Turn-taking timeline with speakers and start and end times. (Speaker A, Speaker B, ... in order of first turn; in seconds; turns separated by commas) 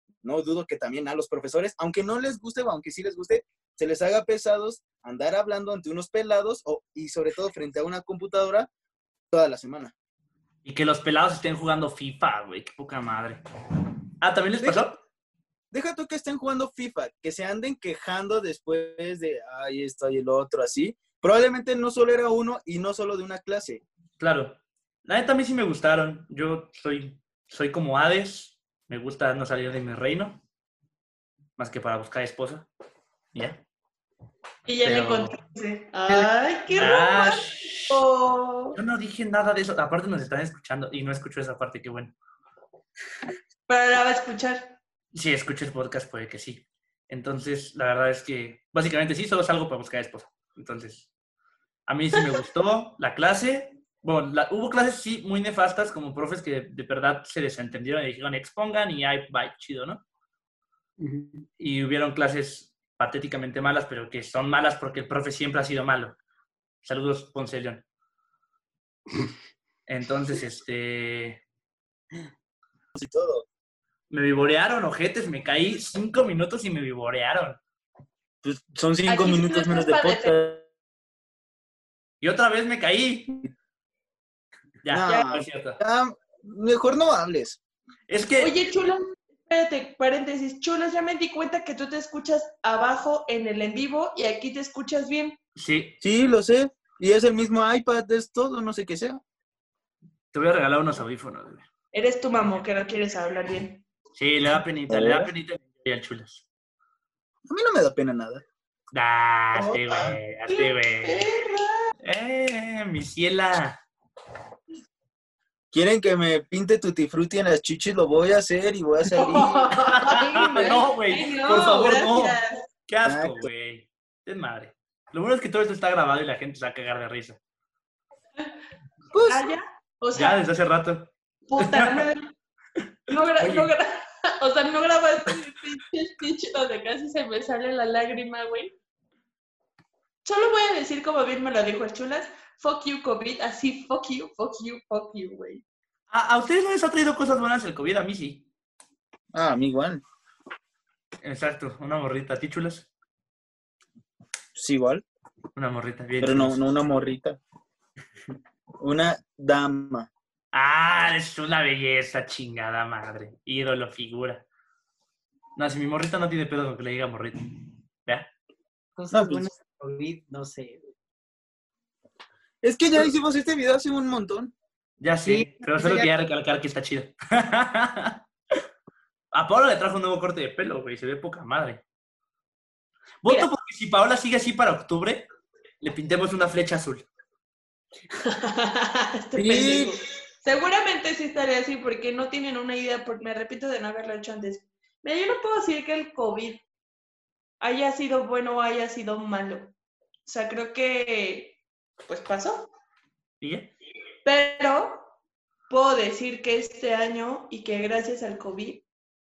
Speaker A: 0.2-8.7, Speaker A: 9.3-9.9, Speaker B: 10.6-13.4, Speaker B: 14.2-15.0, Speaker A: 15.7-23.8, Speaker B: 24.2-30.4, Speaker B: 31.6-32.7, Speaker B: 33.3-33.6, Speaker C: 34.6-38.8, Speaker B: 34.8-35.4, Speaker B: 36.8-38.0, Speaker B: 38.7-42.1, Speaker C: 43.7-44.8, Speaker B: 45.1-51.1, Speaker B: 51.9-60.0, Speaker D: 61.0-61.5, Speaker B: 61.6-66.2, Speaker B: 66.8-67.8, Speaker B: 69.9-71.4, Speaker A: 72.9-73.4, Speaker B: 74.1-77.6, Speaker A: 78.4-80.6, Speaker C: 79.1-80.3, Speaker B: 82.2-83.4, Speaker B: 84.8-85.8, Speaker A: 84.9-87.6, Speaker B: 88.1-88.5, Speaker C: 88.4-95.4, Speaker B: 95.5-96.0, Speaker A: 96.0-99.2, Speaker B: 100.3-101.7, Speaker C: 101.9-103.8, Speaker B: 104.2-106.4, Speaker A: 104.9-105.3, Speaker A: 107.5-108.4, Speaker B: 108.9-111.2, Speaker C: 110.5-111.9, Speaker B: 112.0-113.8, Speaker A: 115.7-119.6, Speaker C: 119.1-122.6, Speaker B: 119.4-127.4, Speaker A: 123.0-123.5, Speaker A: 129.1-129.5, Speaker C: 129.2-130.4, Speaker B: 130.1-132.1, Speaker C: 131.5-132.3, Speaker C: 133.1-138.7, Speaker B: 133.4-133.7, Speaker C: 140.2-145.6, Speaker B: 146.1-148.4, Speaker A: 149.3-150.0, Speaker B: 151.2-152.9, Speaker A: 154.6-155.0, Speaker B: 155.5-156.6, Speaker A: 156.2-157.4, Speaker A: 158.8-160.1, Speaker B: 160.5-164.4, Speaker B: 165.6-167.4, Speaker D: 168.9-170.8, Speaker A: 169.1-169.5, Speaker A: 172.6-174.5, Speaker B: 175.0-178.2, Speaker D: 175.2-176.1, Speaker B: 179.3-181.8, Speaker B: 183.2-185.2, Speaker B: 185.8-187.1, Speaker C: 188.2-196.6, Speaker A: 189.3-189.9, Speaker C: 197.6-199.7, Speaker C: 200.2-202.7, Speaker B: 203.4-203.7, Speaker C: 204.2-205.1, Speaker C: 205.7-208.8